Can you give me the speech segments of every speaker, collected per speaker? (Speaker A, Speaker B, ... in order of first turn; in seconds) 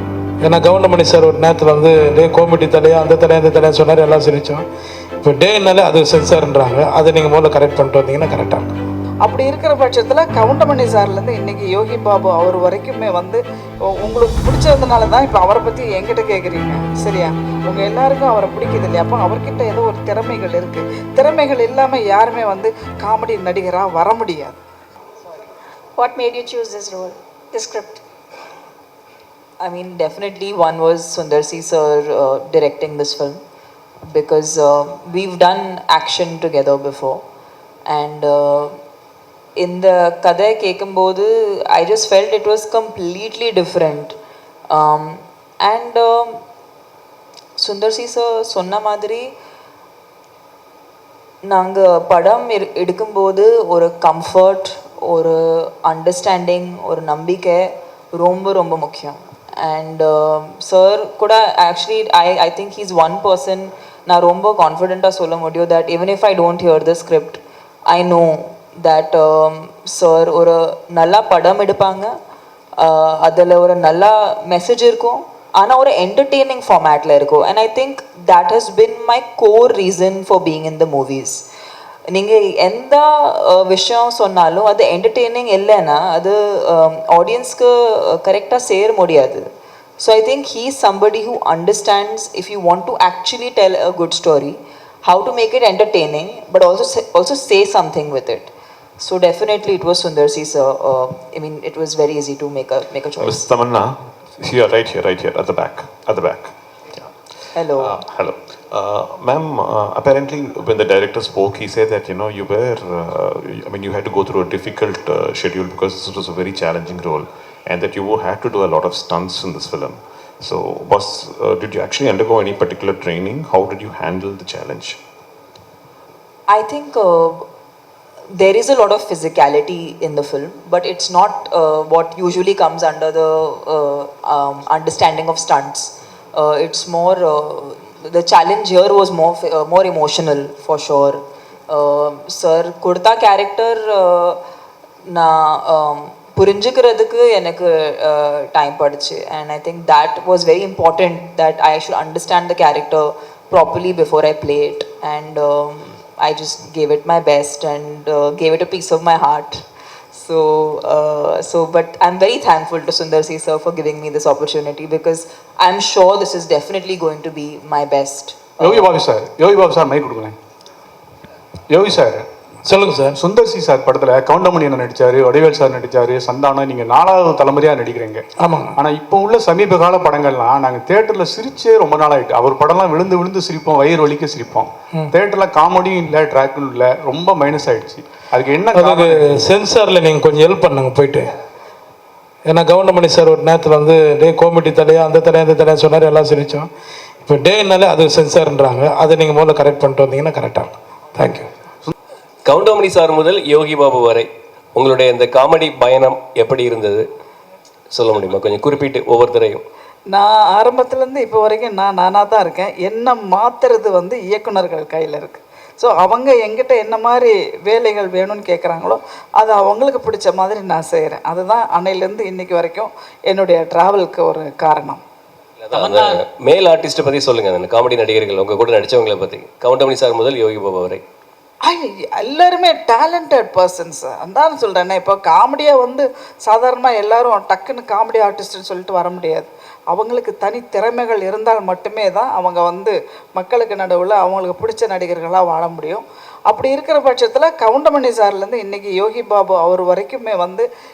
Speaker A: 0.4-4.6, 5.2-8.7, 172.7-173.2, 178.4-178.8, 188.7-191.3, 192.5-196.7, 197.2-201.5
Speaker B: 9.2-13.4, 14.0-24.6, 210.1-225.0, 231.6-250.7
Speaker C: 26.0-28.0
Speaker D: 29.6-33.4, 34.0-37.2, 37.9-38.7, 39.6-44.1, 44.7-46.4, 47.6-49.3, 51.4-72.1, 72.8-81.5, 82.1-89.5, 90.0-103.4, 107.5-108.0, 126.5-127.4, 128.3-144.4, 145.1-169.0
Speaker E: 103.2-107.1, 107.8-125.0
Speaker F: 168.7-169.3, 171.7-172.2, 173.2-175.1, 175.7-178.2, 178.8-189.4
Speaker G: 202.5-207.1, 207.9-209.6, 225.6-231.0